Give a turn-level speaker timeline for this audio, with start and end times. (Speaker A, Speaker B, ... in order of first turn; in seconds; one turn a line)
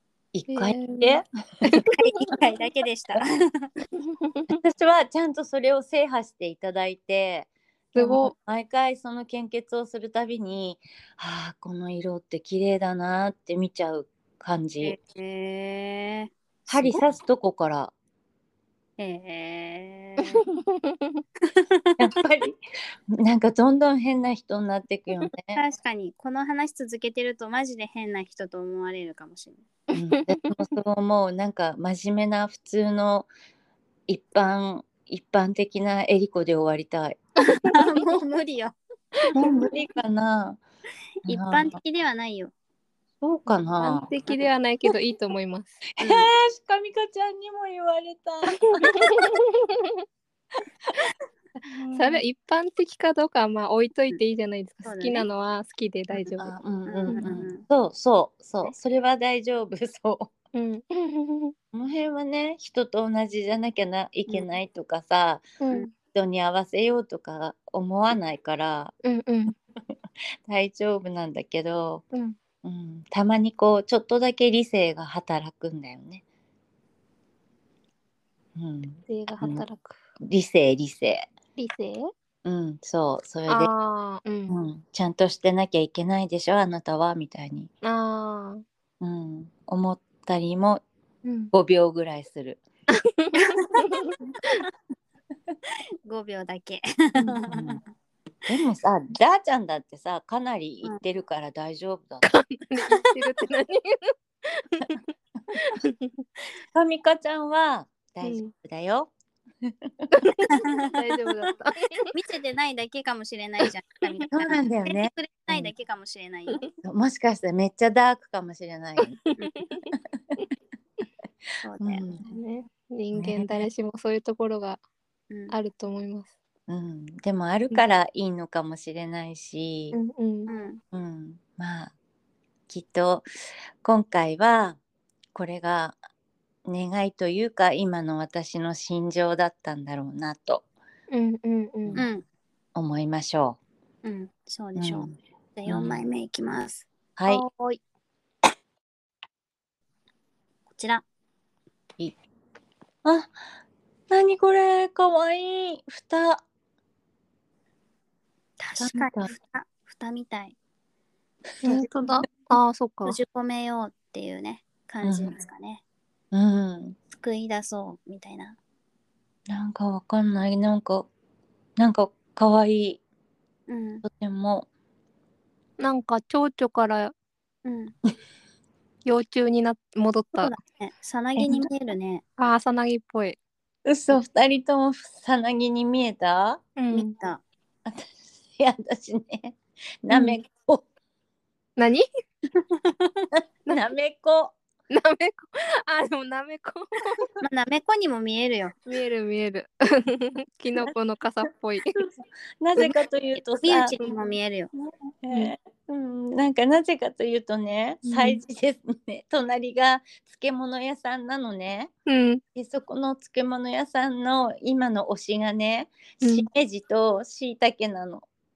Speaker A: 0.3-1.2
Speaker B: 0.5-2.0
Speaker C: 1.9-3.7
Speaker B: 4.1-4.6
Speaker A: 4.5-15.0
Speaker B: 8.0-8.3
Speaker C: 14.8-16.3
Speaker A: 16.7-17.9
Speaker B: 16.7-17.0
Speaker C: 19.0-20.4
Speaker B: 20.4-21.2
Speaker C: 21.4-22.0
Speaker A: 22.0-22.6
Speaker A: 23.1-25.6
Speaker C: 25.6-29.6
Speaker A: 29.9-33.3
Speaker B: 29.9-30.5
Speaker A: 34.1-37.2
Speaker B: 37.5-37.7
Speaker C: 37.6-39.5
Speaker A: 39.3-40.6
Speaker A: 41.3-41.8
Speaker C: 41.3-42.5
Speaker A: 43.2-44.1
Speaker B: 43.8-45.8
Speaker C: 46.0-46.3
Speaker A: 46.0-49.3
Speaker B: 48.7-50.0
Speaker A: 51.7-52.2
Speaker B: 51.9-56.5
Speaker C: 54.9-55.3
Speaker A: 56.4-60.3
Speaker C: 56.9-57.6
Speaker B: 60.5-61.5
Speaker A: 61.7-65.5
Speaker B: 65.6-65.9
Speaker A: 66.1-68.9
Speaker B: 69.0-69.6
Speaker A: 70.5-72.0
Speaker A: 72.6-76.2
Speaker A: 78.6-79.7
Speaker B: 79.1-80.0
Speaker A: 80.2-81.3
Speaker B: 81.6-82.1
Speaker A: 82.5-83.7
Speaker B: 83.5-84.6
Speaker A: 84.5-87.7
Speaker B: 87.8-88.6
Speaker A: 89.0-90.8
Speaker B: 91.2-91.5
Speaker A: 91.5-92.6
Speaker B: 93.0-94.2
Speaker C: 93.4-94.0
Speaker C: 96.1-97.8
Speaker A: 97.2-97.8
Speaker A: 98.5-102.3
Speaker B: 102.2-105.0
Speaker B: 105.6-106.2
Speaker A: 106.7-109.1
Speaker B: 108.2-108.5
Speaker A: 109.6-110.1
Speaker B: 110.1-112.1
Speaker C: 110.5-110.9
Speaker C: 112.1-116.6
Speaker A: 114.3-115.7
Speaker A: 116.8-119.2
Speaker B: 119.1-119.9
Speaker C: 121.6-122.0
Speaker A: 121.8-122.2
Speaker B: 122.2-124.8
Speaker A: 123.1-123.7
Speaker C: 125.3-125.6
Speaker B: 125.5-126.3
Speaker A: 126.7-130.0
Speaker B: 129.9-130.5
Speaker C: 130.5-130.8
Speaker A: 130.9-131.9
Speaker A: 132.7-133.3
Speaker A: 133.8-134.8
Speaker A: 135.3-136.0
Speaker A: 136.7-140.7
Speaker B: 141.1-142.0
Speaker C: 142.0-142.2
Speaker A: 142.8-143.6
Speaker C: 144.0-147.8
Speaker A: 144.8-145.2
Speaker A: 145.7-146.0
Speaker A: 147.2-147.4
Speaker C: 150.7-151.0
Speaker A: 153.0-153.3
Speaker A: 154.1-156.4
Speaker C: 158.6-160.6
Speaker A: 158.8-159.3
Speaker B: 161.6-163.2
Speaker C: 163.1-165.8
Speaker A: 165.0-165.3
Speaker A: 166.3-167.0
Speaker C: 167.2-168.6
Speaker A: 169.5-171.1
Speaker A: 171.8-173.0
Speaker C: 173.7-174.1
Speaker A: 174.0-174.7
Speaker B: 175.8-177.1
Speaker C: 177.7-177.9
Speaker B: 179.1-180.5
Speaker C: 180.4-182.2
Speaker B: 182.4-183.4
Speaker A: 183.8-186.6
Speaker B: 186.8-187.1
Speaker C: 186.9-187.4
Speaker A: 187.9-190.8
Speaker B: 190.1-190.4
Speaker B: 191.8-192.1
Speaker C: 192.9-193.3
Speaker A: 193.7-194.6
Speaker B: 194.9-197.3
Speaker C: 197.4-198.7
Speaker B: 198.9-202.0
Speaker A: 202.6-203.9
Speaker C: 203.6-204.7
Speaker A: 204.8-211.9
Speaker B: 208.1-208.4
Speaker B: 212.1-212.4
Speaker A: 212.6-218.3
Speaker B: 216.2-216.5